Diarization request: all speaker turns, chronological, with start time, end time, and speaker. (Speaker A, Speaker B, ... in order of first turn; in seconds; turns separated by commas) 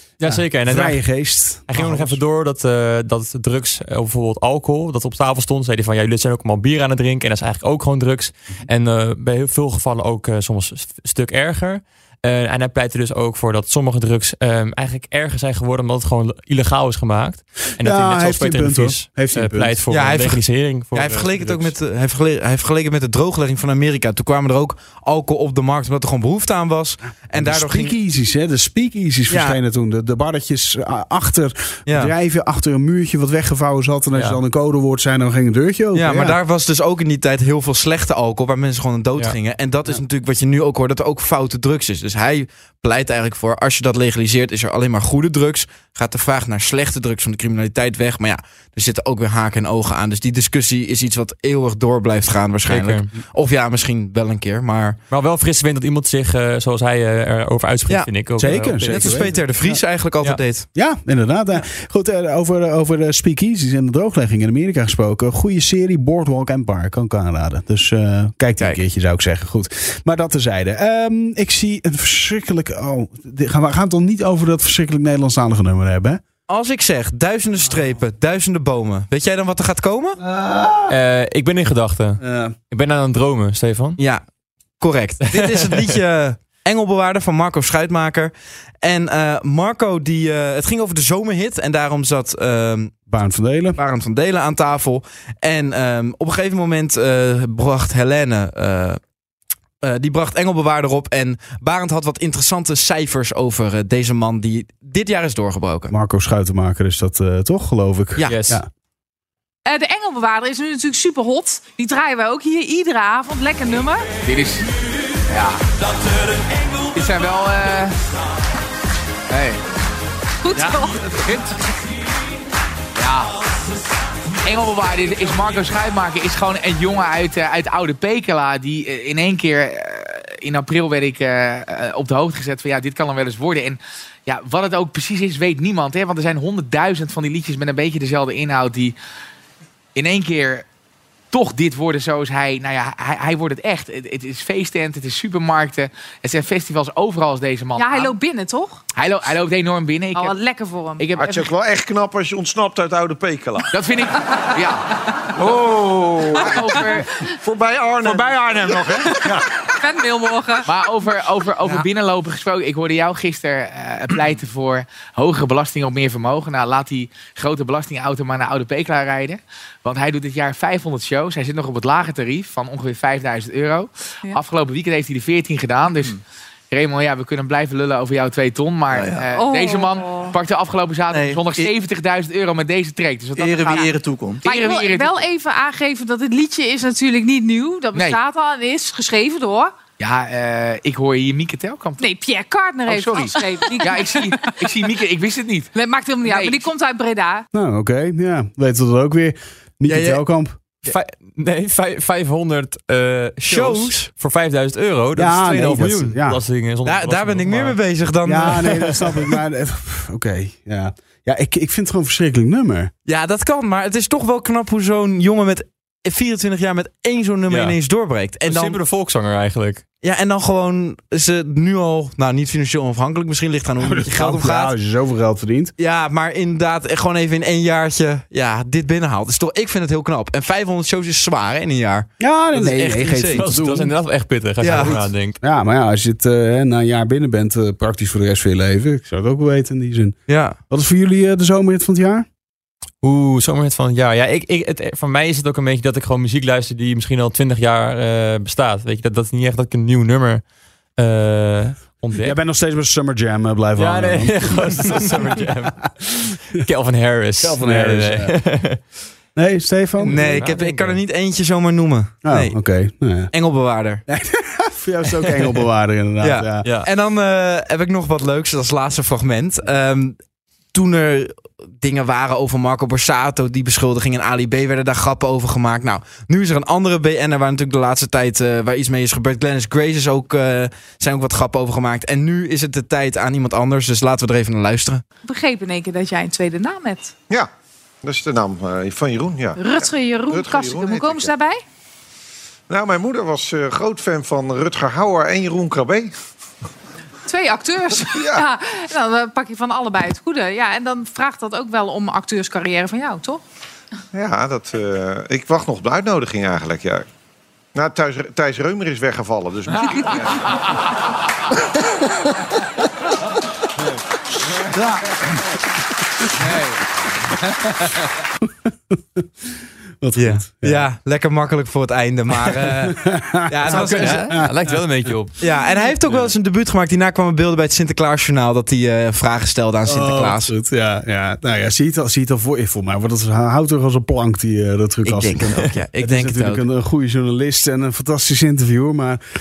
Speaker A: 0.2-1.0, Speaker B: 0.2-2.2, Speaker A: 1.7-21.7, Speaker B: 17.8-19.8, Speaker C: 19.9-27.9, Speaker B: 27.3-36.4, Speaker C: 29.3-29.6, Speaker C: 31.9-32.1, Speaker A: 34.1-34.4, Speaker C: 35.9-55.0, Speaker A: 52.7-53.1, Speaker A: 55.1-59.5, Speaker C: 57.9-60.7, Speaker B: 58.4-59.8, Speaker B: 60.7-76.2, Speaker C: 76.5-80.2, Speaker B: 80.3-80.9, Speaker A: 80.9-84.0, Speaker B: 82.2-82.5, Speaker C: 84.0-84.2, Speaker C: 84.8-93.0, Speaker B: 93.1-93.8, Speaker C: 93.8-99.0, Speaker C: 99.8-105.9, Speaker B: 105.9-108.7, Speaker A: 108.2-108.6, Speaker D: 109.7-114.1, Speaker E: 114.2-114.7, Speaker E: 115.3-115.6, Speaker E: 116.8-118.0, Speaker E: 119.3-119.6, Speaker D: 120.4-121.2, Speaker E: 122.9-123.4, Speaker E: 124.4-139.0, Speaker E: 140.0-140.7, Speaker E: 141.3-148.2, Speaker D: 147.8-148.8, Speaker E: 149.0-150.4, Speaker D: 150.1-151.4, Speaker E: 151.0-151.4, Speaker F: 151.2-153.8, Speaker E: 153.7-154.9, Speaker F: 155.4-159.6, Speaker D: 156.3-156.9, Speaker E: 156.5-157.1, Speaker E: 158.0-158.4, Speaker D: 158.8-160.7, Speaker E: 160.7-183.9, Speaker C: 178.9-179.3, Speaker D: 179.3-180.4, Speaker C: 181.1-181.7, Speaker C: 183.4-184.4, Speaker D: 184.4-189.7, Speaker E: 184.4-185.3, Speaker E: 187.9-188.2, Speaker E: 190.0-192.0, Speaker D: 192.0-194.7, Speaker E: 192.9-195.7, Speaker D: 195.7-197.5, Speaker E: 196.2-196.6, Speaker B: 197.5-200.6, Speaker C: 199.9-200.2, Speaker A: 200.8-207.8, Speaker C: 203.4-204.1, Speaker B: 205.2-206.4, Speaker C: 206.8-208.8, Speaker B: 208.3-212.9, Speaker A: 208.4-208.9, Speaker C: 213.1-218.8, Speaker A: 217.5-217.8, Speaker A: 218.4-219.8, Speaker C: 220.0-224.8, Speaker B: 223.8-225.7, Speaker C: 225.8-233.5, Speaker B: 232.2-233.9, Speaker A: 233.3-235.4, Speaker C: 234.6-235.1, Speaker B: 234.7-240.2, Speaker C: 240.3-240.6, Speaker B: 240.7-242.3, Speaker A: 243.0-250.4, Speaker A: 251.0-252.4, Speaker B: 252.2-255.4, Speaker A: 253.8-258.8, Speaker B: 257.4-258.4, Speaker B: 259.4-260.5, Speaker A: 260.0-261.0, Speaker C: 260.0-262.6, Speaker B: 262.2-263.3, Speaker C: 263.3-264.0, Speaker B: 264.1-266.7, Speaker C: 266.2-270.2, Speaker C: 270.7-285.0, Speaker D: 285.2-287.1, Speaker F: 288.0-291.4, Speaker D: 289.6-291.6, Speaker F: 292.7-296.1, Speaker D: 297.3-303.4, Speaker F: 298.0-298.5, Speaker F: 304.1-307.1, Speaker F: 307.8-310.7, Speaker B: 318.4-319.2, Speaker B: 320.0-320.9, Speaker C: 320.1-324.4, Speaker B: 322.9-324.4, Speaker A: 323.7-325.4, Speaker C: 325.4-330.5, Speaker B: 329.9-339.2, Speaker C: 335.1-336.6